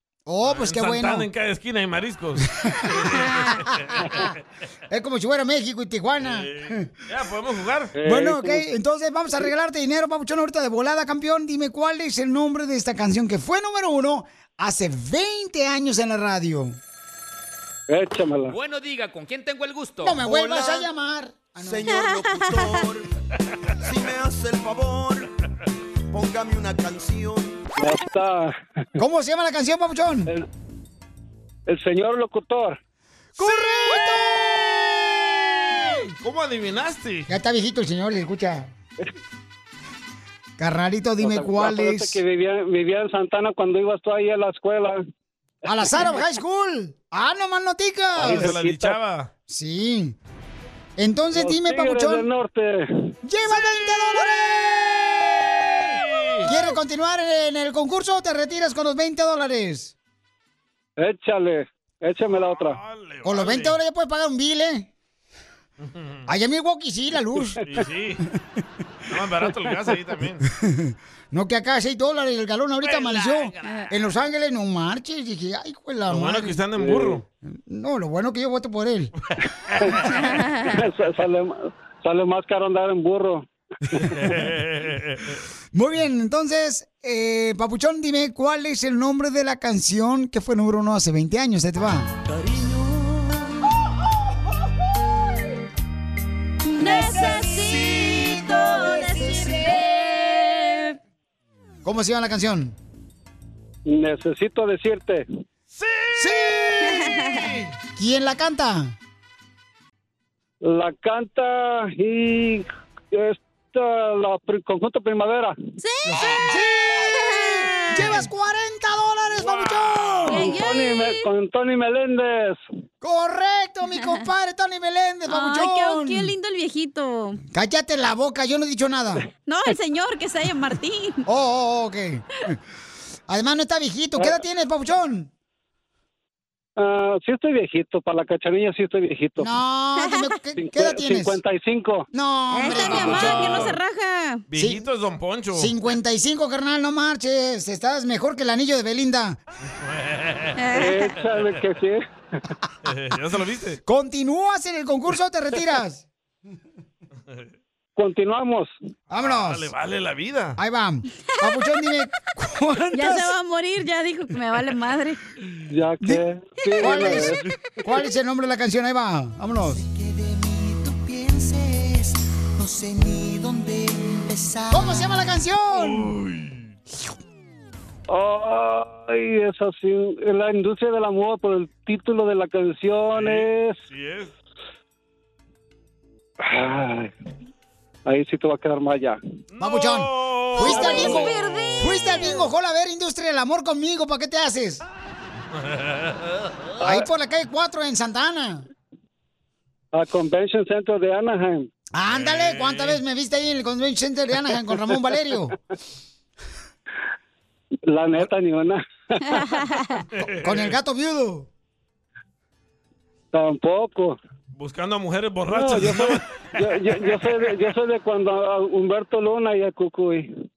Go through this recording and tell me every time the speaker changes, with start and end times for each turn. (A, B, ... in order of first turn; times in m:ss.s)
0:00.2-0:01.3 A
0:00.4-0:04.2 B
0:04.9-0:06.9 A
0:06.2-0:07.9 B
0:07.9-0:08.6 C
0:08.0-0:16.8 A
0:17.9-0:18.6 C
0:18.7-0:20.8 D
0:20.0-0:22.1 A
0:21.6-0:23.0 D
0:21.9-0:22.8 E
0:23.9-0:25.3 D
0:26.1-0:27.6 D
0:27.8-0:28.5 C
0:29.0-0:30.3 A
0:31.7-0:32.8 C
0:33.4-0:36.1 A
0:36.2-0:37.3 B
0:37.3-0:38.7 A
0:40.6-0:42.2 A
0:41.2-0:45.0 C
0:45.6-0:48.6 A
0:45.7-0:46.1 C
0:48.2-0:49.3 B
0:48.2-0:49.0 C
0:49.5-0:50.2 A
0:51.0-0:52.2 A
0:51.3-0:53.1 C
0:53.2-0:55.9 A
0:55.8-0:56.5 B
0:56.4-0:59.9 A
1:01.0-1:02.8 C
1:02.2-1:03.8 B
1:03.2-1:04.9 A
1:05.8-1:06.3 B
1:06.3-1:07.6 A
1:07.6-1:08.3 B
1:09.1-1:10.4 B
1:10.4-1:16.6 A
1:13.2-1:13.9 E
1:16.1-1:17.2 B
1:16.8-1:17.2 C
1:17.4-1:19.1 A
1:20.0-1:20.8 E
1:20.7-1:24.2 C
1:24.1-1:25.4 B
1:25.7-1:32.1 A
1:36.8-1:41.0 E
1:36.8-1:39.8 A
1:41.8-1:42.8 A
1:43.9-1:45.2 C
1:45.7-1:47.7 B
1:46.1-1:47.1 A
1:46.9-1:47.4 E
1:48.0-1:48.9 A
1:50.6-1:55.6 C
1:55.8-1:56.5 E
1:56.0-2:00.6 A
1:57.0-1:58.2 E
1:59.3-2:00.5 B
2:00.3-2:01.2 E
2:00.4-2:02.6 C
2:03.0-2:06.3 A
2:05.3-2:07.4 E
2:07.5-2:09.2 A
2:09.4-2:11.2 E
2:11.2-2:12.6 A
2:13.3-2:15.3 A
2:16.8-2:19.5 C
2:19.4-2:21.4 A
2:20.0-2:20.3 E
2:20.6-2:22.1 C
2:22.1-2:23.7 A
2:22.5-2:24.4 E
2:22.7-2:23.8 B
2:24.5-2:25.7 B
2:24.5-2:24.8 A
2:25.5-2:29.4 A
2:29.7-2:30.6 B
2:30.6-2:30.9 E
2:30.7-2:32.0 C
2:32.8-2:33.8 B
2:33.8-2:36.0 A
2:38.0-2:38.7 C
2:39.1-2:39.7 A
2:39.1-2:40.6 B
2:40.6-2:43.3 A
2:42.9-2:45.2 E
2:45.7-2:47.4 C
2:46.7-2:47.1 E
2:46.8-2:49.8 A
2:47.2-2:47.5 B
2:49.9-2:55.0 D
2:54.7-2:56.1 A
2:55.7-2:56.6 B
2:58.1-3:03.8 C
3:03.1-3:04.3 B
3:06.4-3:07.1 C
3:08.1-3:09.2 C
3:09.5-3:12.1 B
3:09.6-3:14.8 A
3:10.6-3:11.3 C
3:10.7-3:12.4 E
3:15.6-3:16.2 B
3:16.8-3:17.1 C
3:16.8-3:18.6 A
3:19.9-3:21.7 C
3:21.9-3:25.5 A
3:22.1-3:23.0 B
3:27.9-3:29.5 C
3:29.2-3:30.0 E
3:30.2-3:30.8 B
3:30.2-3:31.5 A
3:33.3-3:34.2 C
3:34.5-3:36.6 B
3:35.5-3:40.3 C